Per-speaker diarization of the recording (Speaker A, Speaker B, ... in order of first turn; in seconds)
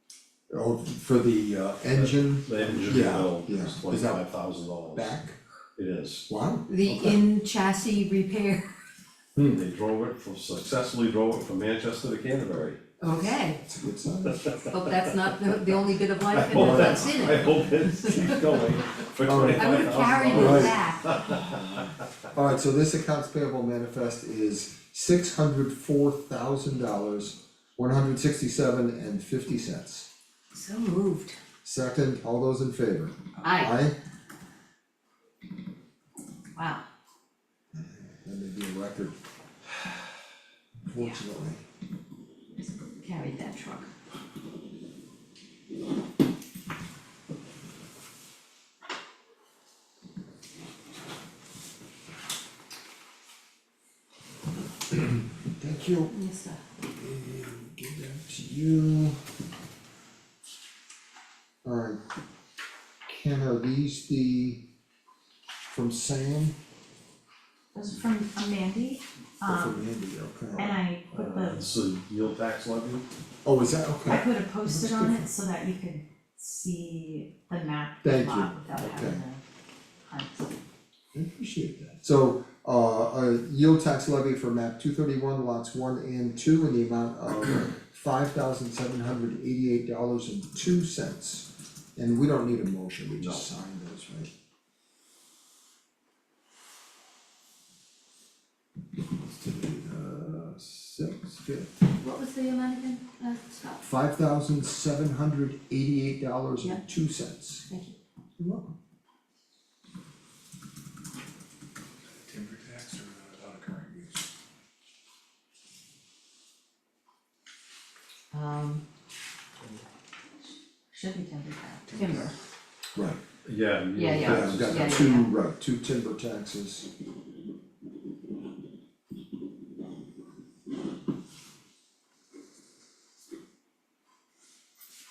Speaker A: 0.5-4.3, 4.9-5.4, 6.3-6.7, 13.5-14.6, 16.5-17.5, 19.2-30.1, 31.6-34.0, 37.7-39.2, 40.9-41.6, 55.0-56.1, 56.9-59.2, 61.6-62.0, 63.1-64.6, 65.7-66.5, 69.5-70.8, 73.4-75.2, 78.0-79.2, 81.1-94.3, 99.3-101.8, 103.8-107.7, 108.4-108.8, 122.9-123.2, 124.2-126.9
Speaker B: 1.8-5.2, 5.8-6.3, 6.8-7.2, 9.4-12.8, 14.3-15.3, 16.3-21.6, 71.1-73.0, 93.2-93.5, 123.4-125.1
Speaker C: 6.7-8.7, 13.0-13.6, 14.7-18.8, 19.5-21.1, 30.5-31.4, 33.4-33.7, 36.5-36.8, 42.7-43.9, 56.1-56.6, 102.0-103.8, 107.7-108.0, 118.3-118.8, 121.9-122.3, 123.9-125.3
Speaker D: 67.7-69.8, 70.5-71.7, 74.0-79.4, 80.0-80.5, 120.9-122.0
Speaker E: 112.2-114.3, 121.9-122.3